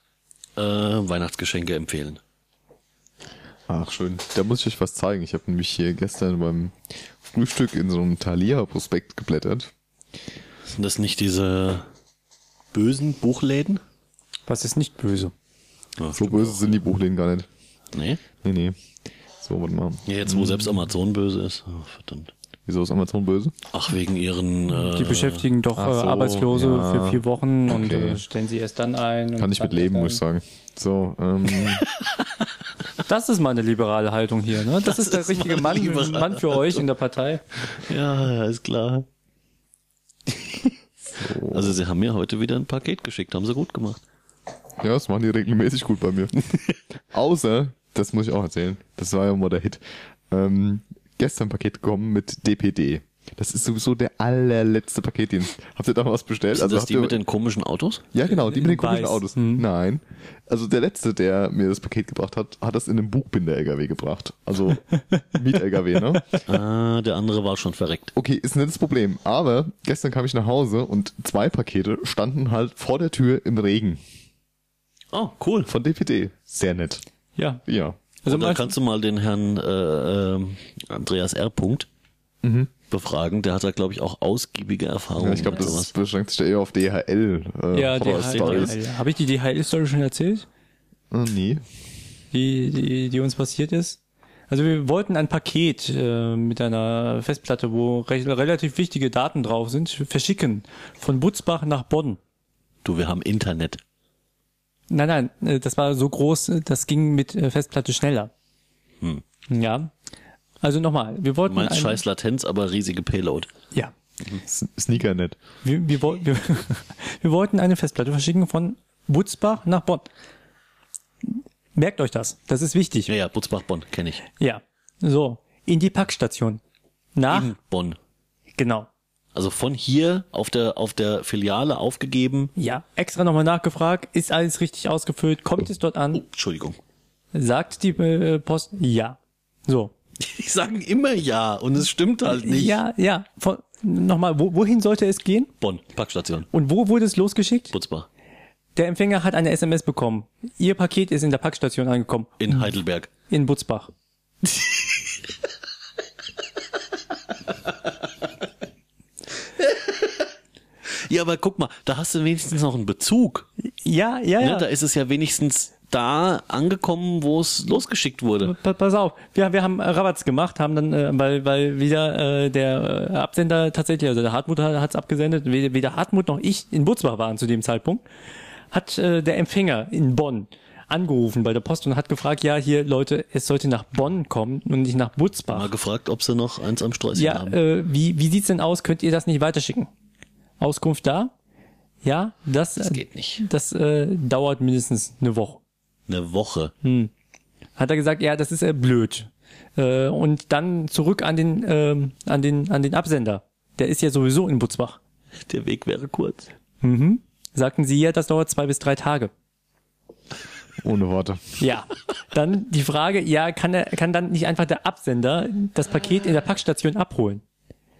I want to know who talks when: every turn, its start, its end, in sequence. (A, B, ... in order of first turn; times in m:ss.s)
0:00.6-0:02.2 A
0:03.7-0:09.7 B
0:10.6-0:11.9 A
0:12.7-0:13.8 A
0:14.5-0:15.3 C
0:16.0-0:16.6 A
0:16.1-0:17.5 B
0:17.9-0:18.2 A
0:18.4-0:18.8 B
0:19.4-0:20.8 B
0:20.0-0:22.3 A
0:22.6-0:23.5 B
0:23.7-0:25.4 A
0:24.8-0:30.2 C
0:25.8-0:28.2 B
0:29.4-0:31.8 B
0:33.0-0:37.4 C
0:34.8-0:36.8 A
0:37.7-0:39.0 A
0:41.2-0:41.8 B
0:41.5-0:44.0 A
0:44.8-0:46.5 B
0:47.1-0:57.2 B
0:56.5-0:58.1 A
0:58.1-1:06.4 B
0:58.3-0:59.6 C
1:04.9-1:05.2 C
1:06.5-1:08.1 A
1:08.1-1:14.0 B
1:15.1-1:15.7 A
1:15.7-1:17.0 B
1:17.4-1:17.6 C
1:17.6-1:18.0 B
1:18.2-1:18.7 C
1:18.2-1:21.9 A
1:22.4-1:22.7 B
1:22.9-1:25.9 A
1:25.2-1:28.7 B
1:27.7-1:30.4 C
1:28.0-1:28.7 A
1:31.1-1:31.6 B
1:32.3-1:34.0 C
1:34.5-1:42.2 C
1:42.8-1:43.8 A
1:44.9-1:48.3 C
1:49.5-1:49.9 C
1:50.6-1:52.0 C
1:51.5-1:53.5 A
1:54.4-1:55.4 B
1:55.6-2:00.1 C
2:01.2-2:03.1 C
2:03.1-2:04.2 A
2:04.4-2:06.6 C
2:07.1-2:07.5 C
2:07.3-2:08.0 A
2:08.6-2:08.9 C
2:09.3-2:12.5 A
2:12.6-2:16.2 C
2:16.1-2:16.8 A
2:17.3-2:19.9 C
2:20.2-2:22.8 A
2:22.2-2:25.5 C
2:25.6-2:26.5 A
2:26.5-2:27.7 C
2:27.7-2:28.1 A
2:28.8-2:32.7 C
2:32.4-2:33.1 A
2:33.3-2:33.9 C
2:34.5-2:34.9 A
2:39.6-2:40.0 A
2:40.9-2:43.5 A
2:43.8-2:44.7 C
2:44.4-2:48.5 A
2:48.4-2:58.0 C
2:58.7-3:05.7 C
3:05.5-3:07.6 A
3:07.1-3:09.9 C
3:10.6-3:11.3 C
3:12.0-3:15.6 C
3:12.8-3:13.4 A
3:16.1-3:16.7 A
3:16.8-3:17.1 C
3:17.8-3:25.0 C
3:25.5-3:26.5 A
3:26.8-3:29.3 C
3:30.8-3:31.6 B
3:31.6-3:37.4 C